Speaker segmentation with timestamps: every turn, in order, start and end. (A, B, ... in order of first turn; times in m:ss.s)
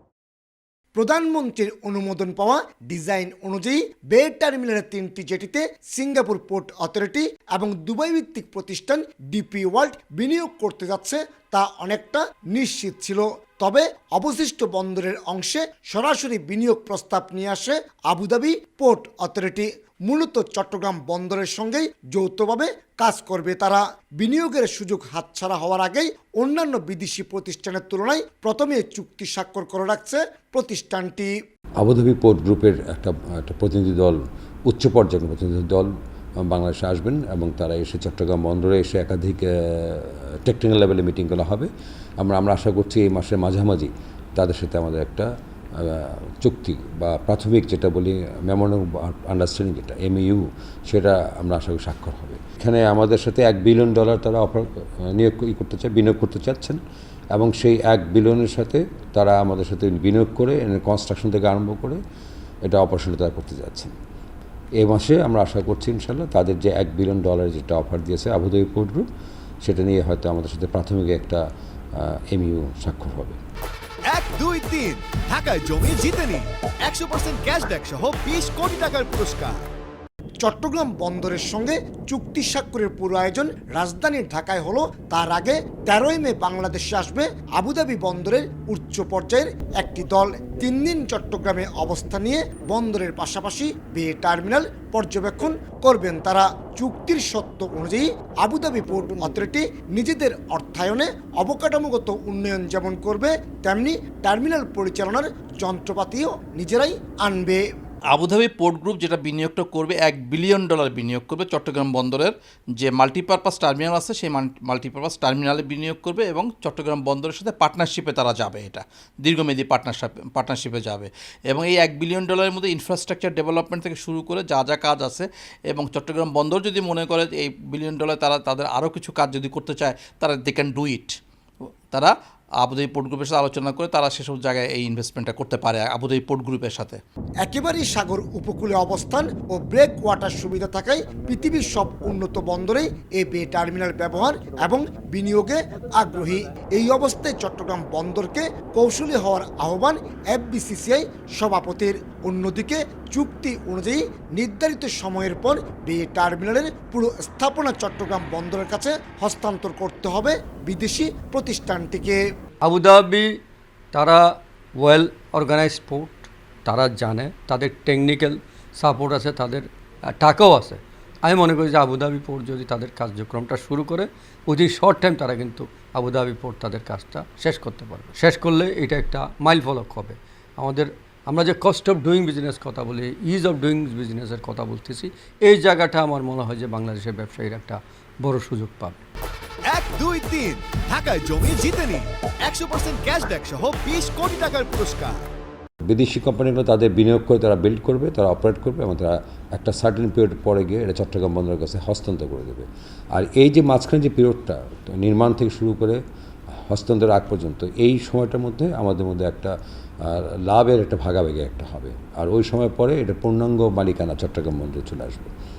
0:01.0-0:31.3 A
0:31.8-0:56.8 B
0:57.3-1:02.0 B
1:02.7-1:03.9 B
1:04.8-1:09.1 B
1:09.6-1:11.4 B
1:12.0-1:13.4 B
1:14.1-1:19.6 C
1:20.4-1:47.6 A
1:48.1-2:11.2 D
2:11.9-2:17.0 D
2:17.4-2:42.2 A
2:42.6-2:43.4 E
2:43.9-3:09.0 E
3:09.7-3:15.2 C
3:15.9-3:26.0 B
3:26.7-3:35.3 B